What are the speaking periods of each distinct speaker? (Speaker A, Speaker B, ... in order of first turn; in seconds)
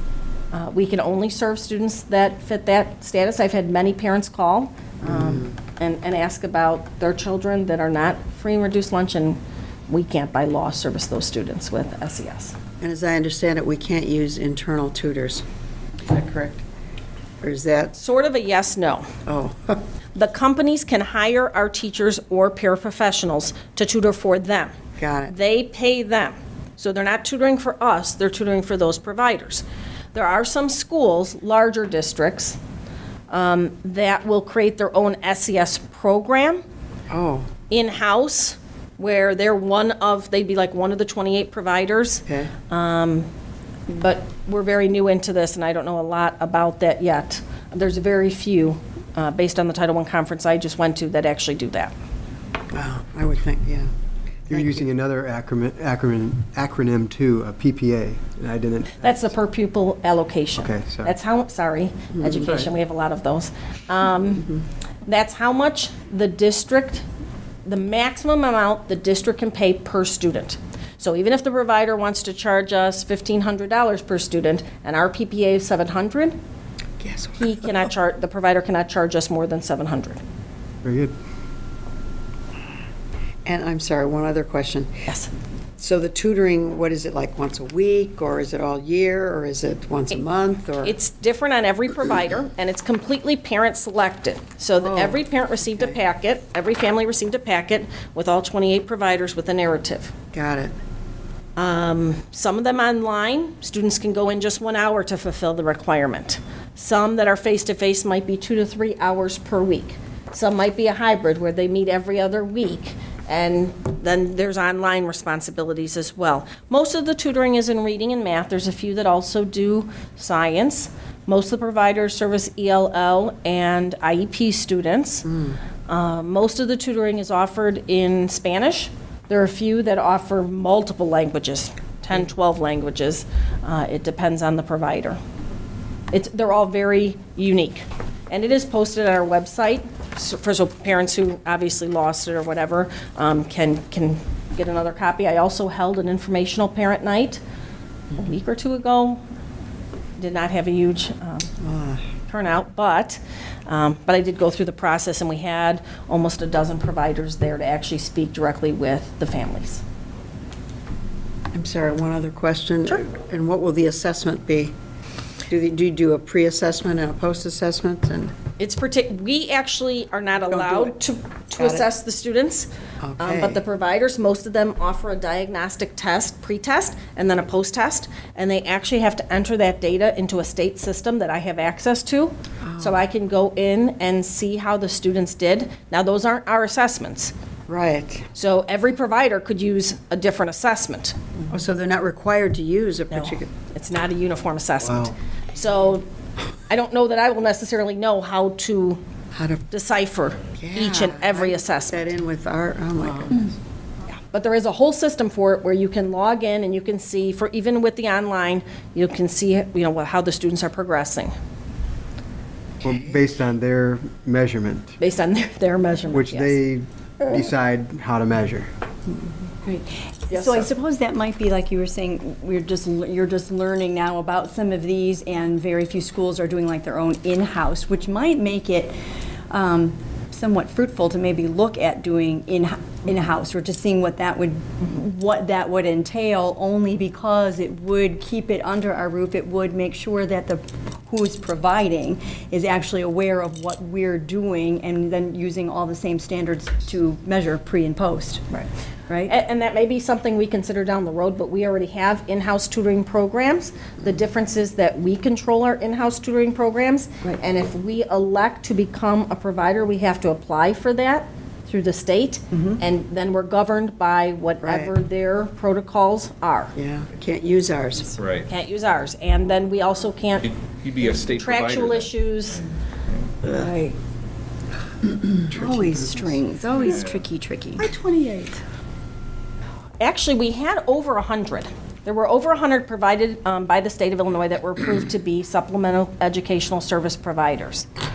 Speaker A: 0.5-12.6, 17.9-19.1, 20.1-24.7, 25.3-32.6, 33.3-36.6, 37.7-43.3, 43.9-51.9, 59.0-64.5, 65.1-67.0, 67.7-76.4, 77.4-80.2, 85.0-85.3, 90.8-100.1, 101.6-125.3, 125.9-135.2, 136.1-147.4, 148.2-149.2, 150.2-151.5, 152.3-159.8, 168.6-172.7, 173.2-187.3, 188.3-191.2, 193.1-196.1, 196.7-199.0, 199.7-202.1, 204.3-211.3, 215.0-216.6, 220.3-220.7, 249.3-266.7, 268.5-270.5, 271.0-272.6, 280.0-287.9
Speaker B: 12.8-15.4, 16.1-16.6, 17.4-18.0, 19.3-19.8, 25.0-25.3, 37.1-37.5, 42.3-42.5, 52.7-53.9, 54.5-54.9, 77.0-77.5, 83.5-84.9, 85.8-91.0, 94.8-95.2, 100.3-100.7, 151.6-152.0, 161.5-164.7, 165.5-168.3, 170.7-170.9, 171.6-171.9, 173.0-173.6, 182.6-183.0, 187.7-188.3, 191.5-193.5, 199.3-199.7, 200.6-203.4, 264.6-264.9, 266.8-268.1, 275.6-275.8
Speaker C: 54.5-59.2, 60.6-61.1, 80.8-81.1, 212.8-214.9, 216.1-218.7
Speaker D: 219.7-228.9, 229.5-248.5, 273.5-273.9, 275.5-278.5
Speaker E: 268.1-268.5, 270.4-272.6, 276.7-277.2